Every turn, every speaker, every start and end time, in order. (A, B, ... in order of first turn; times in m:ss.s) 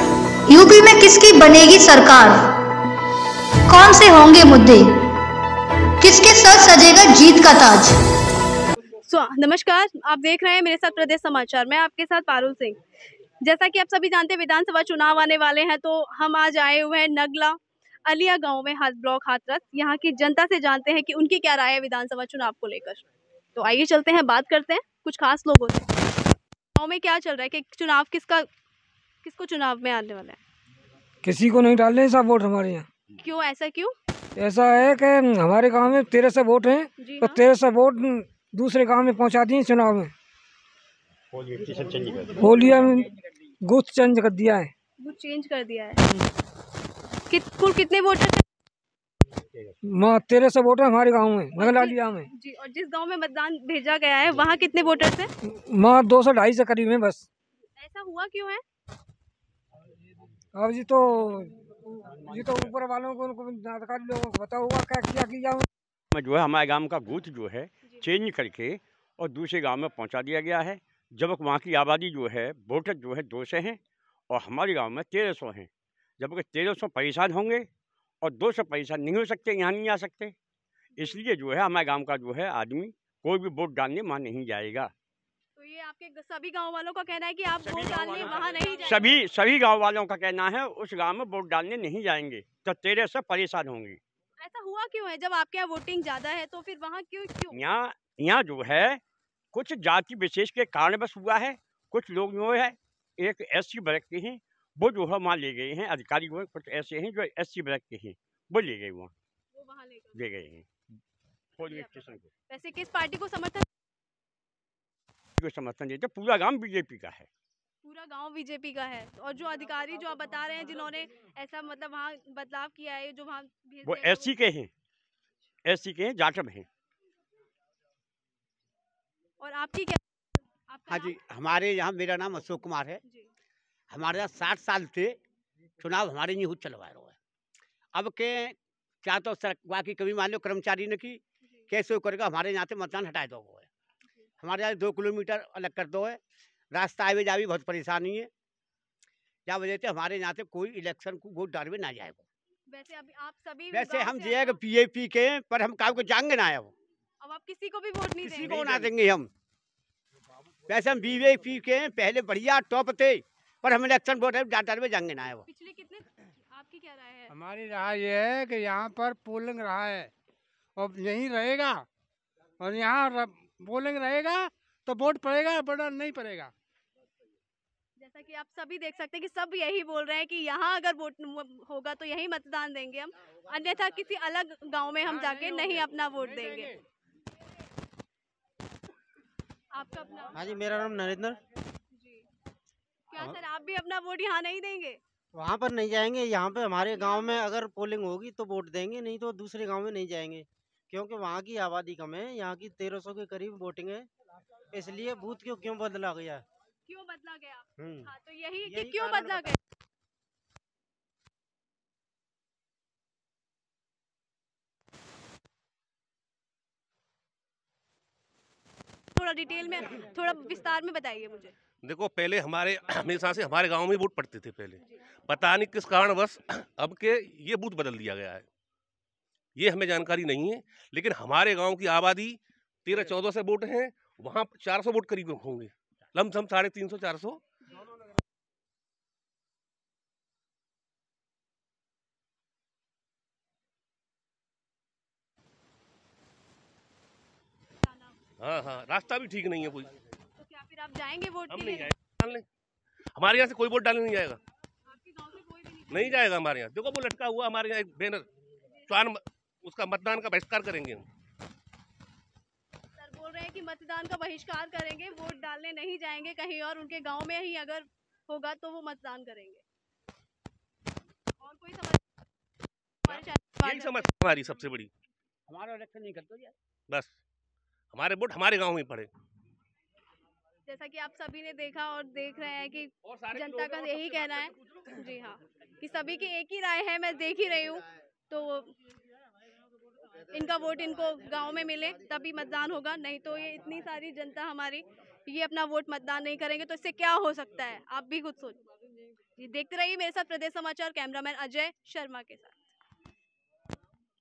0:00.5-0:02.5 A
0:03.7-0:04.9 A
0:06.0-0:08.0 A
0:09.0-0:12.8 B
0:13.4-0:25.9 B
0:26.7-0:28.5 B
0:29.2-0:30.4 B
0:31.2-0:32.9 C
0:33.2-0:33.9 B
0:34.4-0:40.1 C
0:37.0-0:37.4 B
0:41.3-0:42.4 D
0:42.3-0:43.1 C
0:43.6-0:44.7 C
0:45.0-0:46.0 B
0:47.3-0:48.4 B
0:49.8-0:52.3 C
0:51.6-0:55.3 B
0:55.4-0:57.2 C
0:57.8-0:58.6 B
1:00.5-1:05.6 C
1:06.1-1:13.8 D
1:14.3-1:17.7 D
1:18.2-1:20.3 D
1:21.0-1:24.9 D
1:25.6-1:29.2 B
1:27.6-1:34.0 D
1:34.4-1:37.6 B
1:37.5-1:39.0 D
1:39.5-1:49.1 D
1:49.5-1:50.2 B
1:50.1-1:50.7 D
1:51.6-1:52.3 D
1:52.5-1:53.6 B
1:55.4-1:57.3 D
1:57.8-2:04.3 B
2:03.8-2:04.7 D
2:05.6-2:06.7 D
2:09.4-2:10.0 B
2:10.7-2:11.2 B
2:10.9-2:13.0 E
2:13.9-2:15.2 E
2:15.8-2:17.2 E
2:17.9-2:23.7 E
2:21.4-2:21.7 B
2:24.4-2:26.2 E
2:26.7-2:28.3 E
2:29.4-2:32.2 E
2:32.7-2:34.6 B
2:33.7-2:36.7 E
2:37.2-2:38.9 B
2:38.2-2:39.3 E
2:40.7-2:45.4 E
2:45.4-2:47.3 B
2:47.3-2:50.1 F
2:50.8-2:51.8 F
2:52.6-2:56.5 F
2:58.0-3:06.7 B
3:05.0-3:06.7 F
3:09.7-3:10.4 B
3:10.3-3:11.4 G
3:11.9-3:12.2 B
3:13.1-3:15.0 B
3:15.3-3:24.1 G
3:16.9-3:17.4 B
3:24.7-3:26.4 G
3:26.8-3:29.6 B
3:27.8-3:28.1 G
3:28.6-3:29.4 G
3:39.1-3:41.5 B
3:41.8-3:48.4 H
3:49.6-3:57.4 H
4:07.8-4:08.2 B
4:08.4-4:09.9 H
4:10.4-4:11.9 B
4:11.5-4:12.4 H
4:13.2-4:14.4 H
4:14.9-4:16.2 B
4:15.9-4:18.2 H
4:18.9-4:21.0 H
4:23.0-4:29.6 B
4:31.4-4:32.0 B
4:33.1-4:34.0 B
4:33.1-4:34.9 H
4:35.5-4:36.5 E
4:36.9-4:37.2 H
4:37.9-4:39.1 H
4:40.7-4:48.7 B
4:43.1-4:44.4 H
4:50.3-4:58.6 B
4:59.4-5:02.6 B